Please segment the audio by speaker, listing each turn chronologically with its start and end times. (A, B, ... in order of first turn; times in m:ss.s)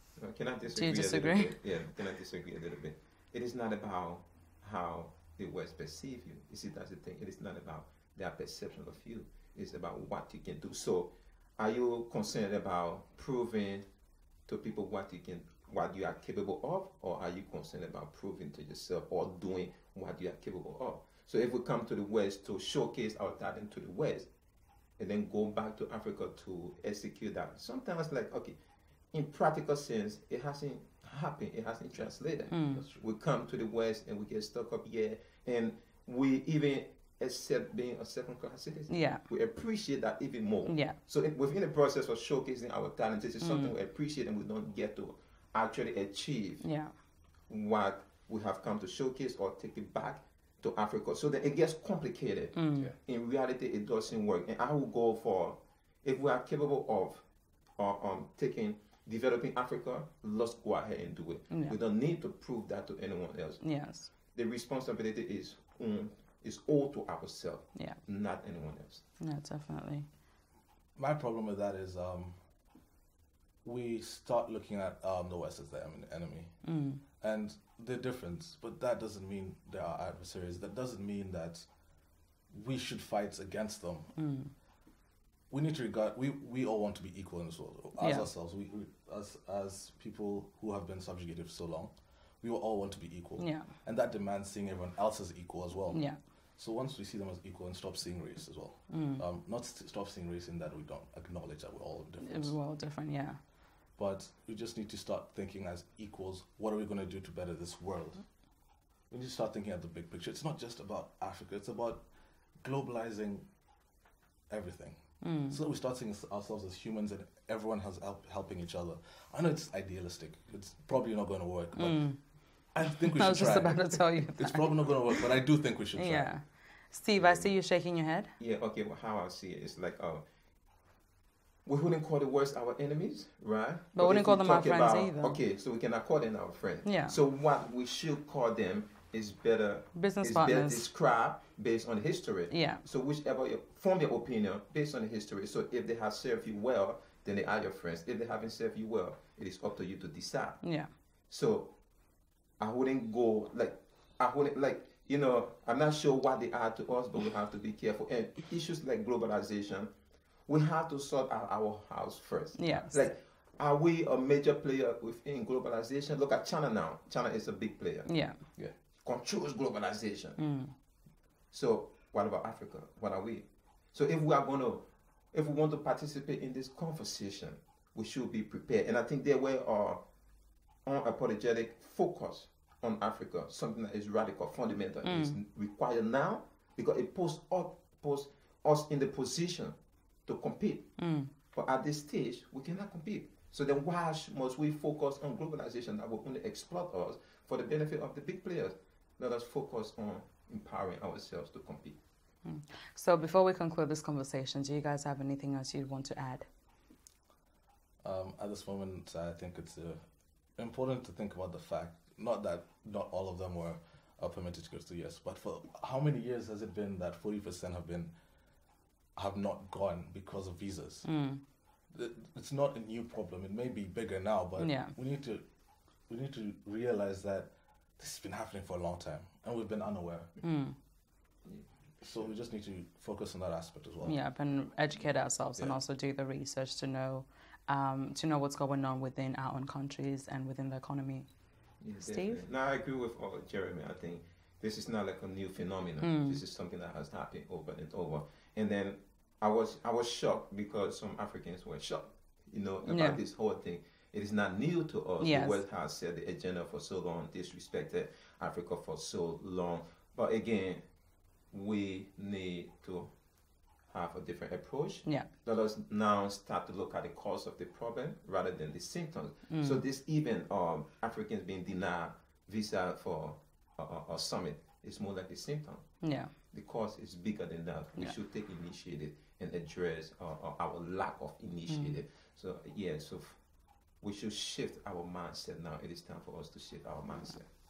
0:00.2-0:13.9 A
0:00.7-0:01.6 B
0:14.5-0:24.3 A
0:25.0-0:28.6 A
0:29.1-0:46.6 A
0:32.5-0:32.8 B
0:32.7-0:33.0 C
0:38.9-0:39.2 B
0:40.7-0:41.0 B
0:43.4-0:43.7 B
0:46.6-0:46.9 B
0:47.5-0:57.2 A
0:52.6-0:52.9 B
0:57.8-1:03.6 A
1:01.5-1:01.8 B
1:03.6-1:04.1 B
1:04.3-1:09.0 A
1:09.2-1:10.1 B
1:11.0-1:12.4 C
1:13.6-1:16.5 C
1:16.6-1:17.0 B
1:17.2-1:21.7 C
1:22.5-1:24.2 C
1:24.2-1:24.5 B
1:25.5-1:42.6 C
1:28.0-1:28.3 B
1:33.4-1:33.7 B
1:35.9-1:36.2 B
1:38.9-1:39.2 B
1:42.2-1:43.4 B
1:44.0-1:48.2 C
1:49.1-1:52.1 C
1:52.6-1:53.5 C
1:54.5-2:02.2 C
1:55.2-1:55.6 B
2:01.8-2:02.2 B
2:02.7-2:06.4 C
2:03.1-2:05.2 B
2:05.9-2:08.3 B
2:07.2-2:07.6 A
2:08.4-2:10.2 A
2:11.7-2:30.6 A
2:13.9-2:15.4 B
2:16.8-2:17.2 B
2:19.9-2:20.9 B
2:22.5-2:22.8 B
2:30.6-2:30.9 B
2:31.3-2:31.8 A
2:32.6-2:39.9 A
2:40.5-2:48.2 A
2:42.6-2:43.1 B
2:48.1-2:48.4 B
2:49.0-2:50.4 A
2:50.4-2:50.7 B
2:51.5-3:00.0 A
3:00.8-3:09.8 A
3:05.0-3:05.4 B
3:10.3-3:11.0 A
3:11.0-3:11.3 B
3:11.5-3:22.0 A
3:22.4-3:26.5 B
3:28.0-3:30.0 C
3:30.6-3:38.1 C
3:39.2-3:41.1 C
3:41.0-3:41.4 B
3:41.9-3:45.4 C
3:44.6-3:44.9 B
3:46.1-3:50.3 C
3:50.4-3:50.8 B
3:51.5-3:52.3 A
3:52.0-3:54.2 C
3:54.0-4:01.3 B
4:01.8-4:20.8 A
4:02.0-4:02.4 B
4:06.0-4:06.4 B
4:12.9-4:13.2 B
4:15.2-4:15.6 B
4:21.5-4:23.1 A
4:23.9-4:35.9 A
4:29.5-4:29.8 B
4:36.0-4:36.3 B
4:36.5-4:43.4 A
4:41.7-4:42.0 B
4:44.0-4:47.5 A